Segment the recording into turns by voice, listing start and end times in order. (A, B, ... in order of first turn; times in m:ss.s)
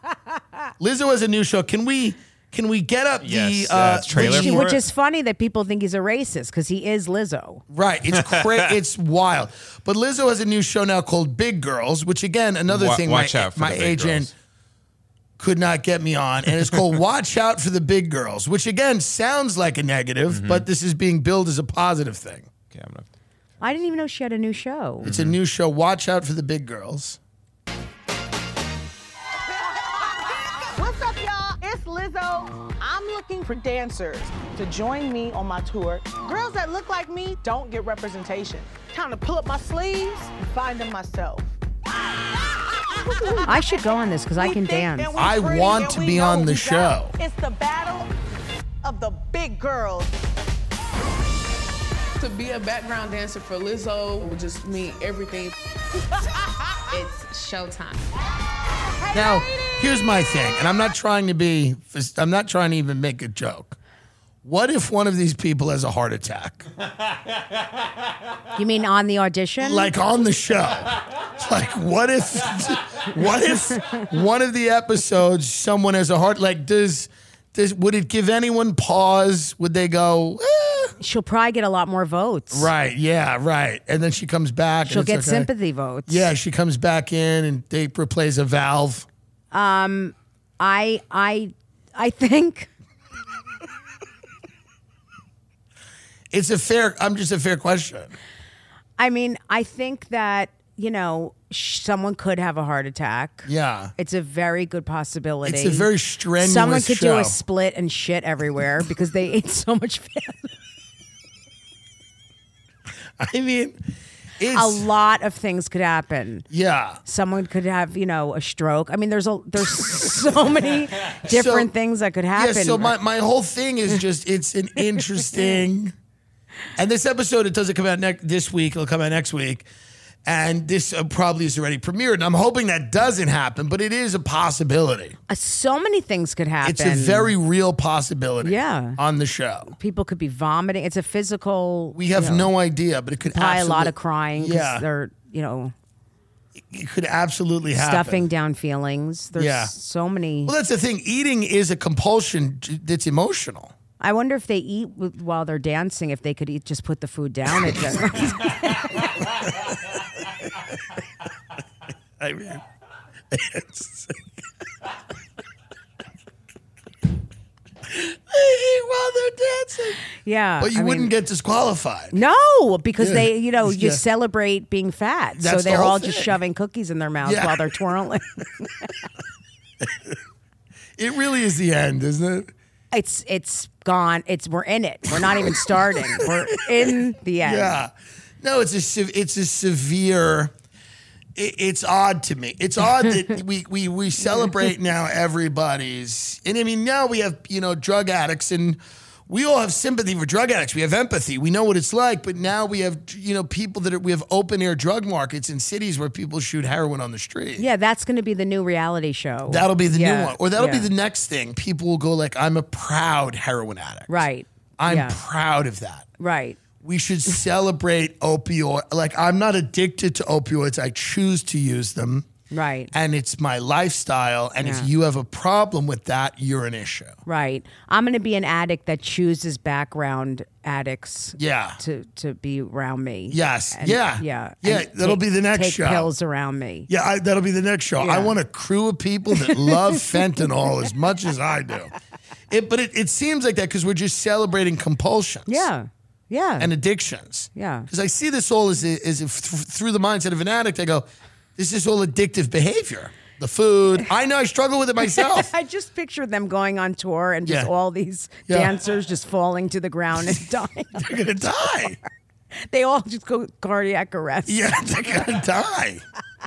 0:00.8-0:04.8 A
0:03.2-0:04.8 B
0:04.1-0:07.6 C
0:07.7-0:14.3 A
0:12.7-0:14.3 B
0:15.4-0:22.5 A
0:20.3-0:20.6 B
0:22.7-0:23.1 B
0:23.6-0:25.1 C
0:25.0-0:25.3 B
0:25.0-0:27.2 A
0:30.7-0:41.5 D
0:42.8-0:43.8 D
0:43.4-0:45.1 C
0:44.4-0:48.1 D
0:45.2-0:47.2 A
0:48.8-0:50.1 D
0:52.2-0:55.5 E
0:56.9-0:58.1 E
0:59.1-1:03.8 A
1:04.4-1:06.6 A
1:08.6-1:09.9 C
1:09.6-1:20.9 A
1:21.0-1:22.7 C
1:22.5-1:25.5 A
1:24.8-1:26.3 C
1:26.1-1:29.1 A
1:29.5-1:32.7 C
1:36.3-1:38.1 A
1:39.0-1:50.5 C
1:43.4-1:43.9 A
1:45.4-1:47.4 A
1:53.2-1:53.8 A
1:54.4-1:54.8 A
1:54.5-1:56.4 C
1:56.5-1:57.0 A
1:57.0-2:02.9 C
2:01.2-2:01.7 A
2:02.3-2:05.9 A
2:06.8-2:09.7 A
2:10.2-2:15.2 A
2:15.3-2:17.3 C
2:16.6-2:19.7 A
2:18.4-2:19.0 C
2:19.7-2:22.5 C
2:21.9-2:24.8 A
2:23.3-2:25.7 C
2:26.6-2:28.2 A
2:27.7-2:30.5 C
2:29.4-2:29.7 A
2:30.4-2:33.7 A
2:34.0-2:39.3 C
2:42.2-2:42.6 A
2:43.3-2:44.2 A
2:47.9-2:50.0 A
2:50.2-2:51.1 C
2:50.6-2:52.1 A
2:52.1-2:58.9 C
2:53.0-2:54.0 A
2:55.4-2:56.4 A
2:57.2-2:57.6 A
2:59.8-3:00.1 A
3:01.0-3:02.5 A
3:02.9-3:07.8 C
3:05.1-3:10.5 A
3:11.3-3:27.6 A
3:27.6-3:30.9 C
3:29.5-3:34.2 A
3:34.1-3:35.2 C
3:34.8-3:36.1 A
3:36.2-3:36.6 C
3:36.8-3:42.3 A
3:42.5-3:42.9 C
3:42.9-3:47.2 A
3:44.6-3:44.9 C
3:47.2-3:56.9 C
3:51.4-3:51.8 A
3:53.3-3:56.1 A
3:56.9-4:01.9 A
3:58.0-3:58.4 C
3:59.4-4:00.0 C
4:02.5-4:05.7 A
4:05.5-4:06.7 C
4:06.6-4:15.5 A
4:07.5-4:07.9 C
4:15.0-4:21.2 C
4:17.4-4:17.7 A
4:18.5-4:18.8 A
4:20.9-4:22.0 A
4:22.5-4:24.8 C
4:24.5-4:26.0 A